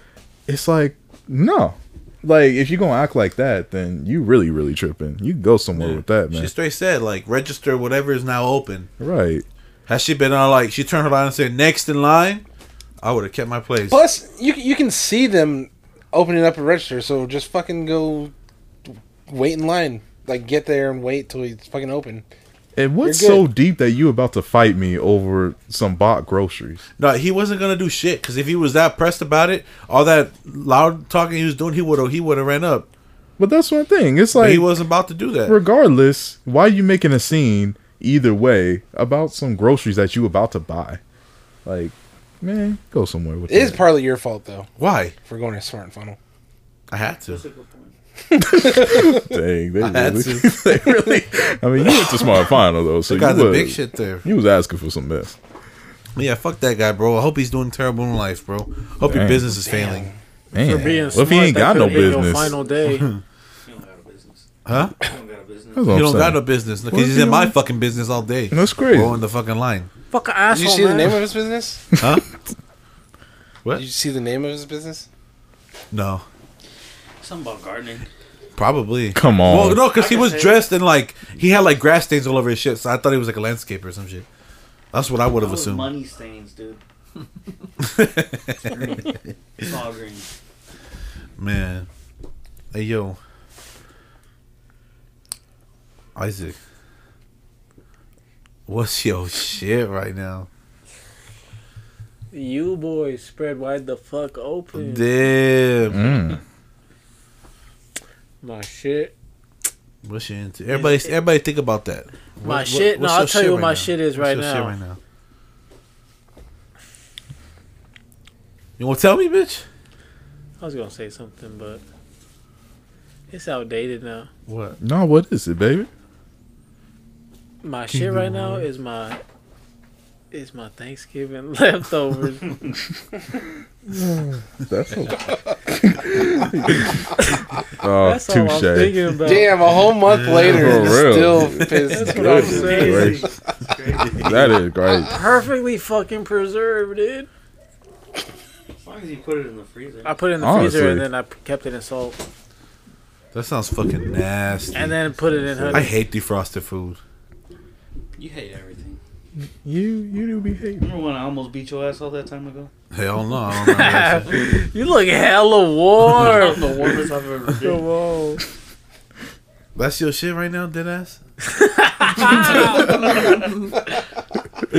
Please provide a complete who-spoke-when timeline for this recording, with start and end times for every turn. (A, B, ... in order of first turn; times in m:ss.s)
0:00.5-0:06.5 A
0:05.8-0:08.9 B
0:09.0-0:09.4 A
0:09.9-0:12.4 B
0:13.0-0:14.0 B
0:13.9-0:18.3 C
0:19.3-0:22.2 C
0:22.8-0:26.8 A
0:23.0-0:23.5 C
0:27.0-0:32.9 B
0:33.4-0:34.7 A
0:34.3-0:35.6 B
0:35.4-0:41.0 A
0:41.6-0:43.8 A
0:43.5-0:44.7 C
0:44.8-0:45.2 B
0:45.2-0:46.2 C
0:46.9-0:47.4 B
0:47.2-0:47.9 D
0:48.4-0:49.1 C
0:48.4-0:55.4 A
0:49.8-0:50.6 B
0:53.1-0:54.2 B
0:56.1-1:00.1 B
0:59.0-0:59.5 A
0:59.6-1:00.2 C
1:00.5-1:02.6 A
1:00.5-1:03.1 E
1:01.7-1:02.9 D
1:02.8-1:03.2 B
1:03.6-1:06.1 D
1:04.6-1:05.0 B
1:05.8-1:07.6 A
1:05.9-1:09.9 B
1:08.5-1:09.2 A
1:10.1-1:11.2 E
1:10.5-1:11.8 C
1:12.0-1:12.2 B
1:13.7-1:15.1 C
1:15.9-1:16.2 B
1:17.2-1:18.1 D
1:18.6-1:24.2 B
1:19.1-1:19.8 A
1:19.8-1:20.7 D
1:24.9-1:25.9 B
1:25.4-1:26.8 D
1:27.8-1:29.7 B
1:28.7-1:30.3 D
1:31.4-1:31.9 B
1:32.7-1:33.2 B
1:36.1-1:36.6 B
1:38.7-1:40.5 B
1:42.3-1:45.1 E
1:44.7-1:46.2 B
1:45.9-1:46.4 A
1:48.4-1:49.1 E
1:50.0-1:55.0 B
1:50.7-1:51.0 E
1:52.4-1:54.8 E
1:58.8-1:59.6 B
2:00.6-2:01.8 E
2:03.3-2:04.3 E
2:04.5-2:04.8 B
2:04.8-2:05.9 A
2:07.6-2:09.2 E
2:07.9-2:08.6 B
2:10.3-2:12.6 E
2:12.4-2:12.8 D
2:13.9-2:17.1 A
2:17.8-2:19.0 A
2:18.0-2:19.5 E
2:19.2-2:23.0 C
2:20.0-2:22.0 B
2:20.4-2:23.3 A
2:21.9-2:23.2 E
2:22.2-2:24.5 D
2:24.0-2:24.6 B
2:24.2-2:25.2 A
2:25.1-2:27.3 E
2:28.8-2:30.2 D
2:30.0-2:32.2 E
2:30.4-2:31.1 A
2:33.3-2:35.0 B
2:34.7-2:35.9 E
2:35.3-2:35.9 A
2:35.7-2:37.0 B
2:38.2-2:39.0 D
2:39.6-2:40.9 A
2:40.8-2:42.7 D
2:42.9-2:44.6 B
2:43.5-2:47.0 E
2:46.1-2:47.8 D
2:47.6-2:48.4 E
2:49.7-2:51.2 B
2:51.4-2:53.0 E
2:52.2-2:53.7 D